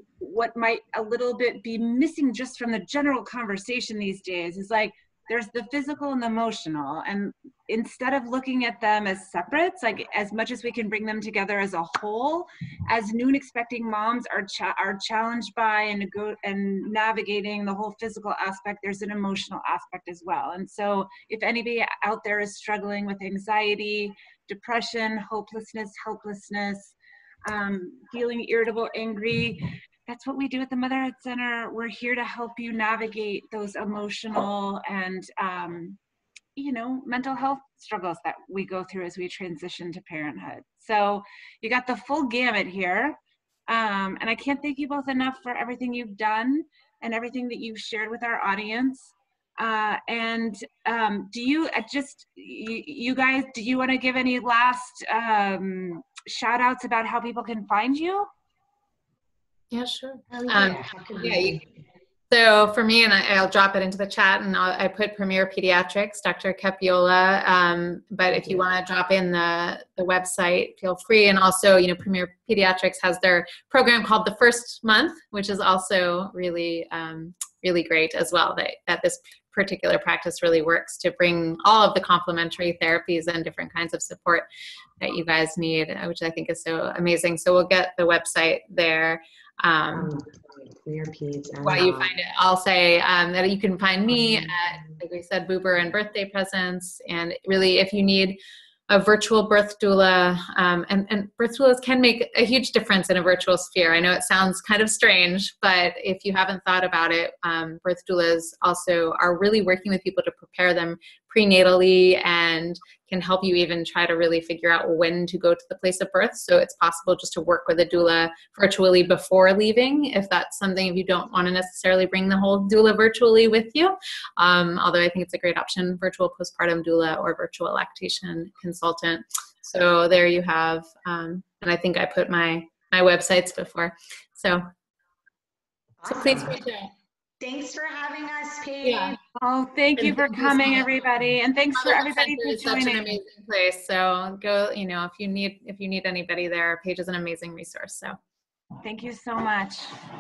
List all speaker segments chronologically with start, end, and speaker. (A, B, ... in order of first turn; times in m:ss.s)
0:00.2-0:27.0 A
0:27.5-0:36.0 A
0:36.6-0:58.3 A
0:59.7-1:01.6 B
1:00.3-1:01.8 C
1:02.3-1:24.5 B
1:08.3-1:08.7 C
1:25.0-1:30.1 B
1:29.9-1:32.1 C
1:31.6-2:14.7 B
1:34.2-1:34.6 C
2:16.0-2:16.6 C
2:16.0-2:16.9 B
2:17.4-2:19.2 C
2:18.9-2:19.1 B
2:19.4-2:23.2 A
2:20.0-2:20.8 B
2:21.8-2:28.2 B
2:28.8-2:30.0 A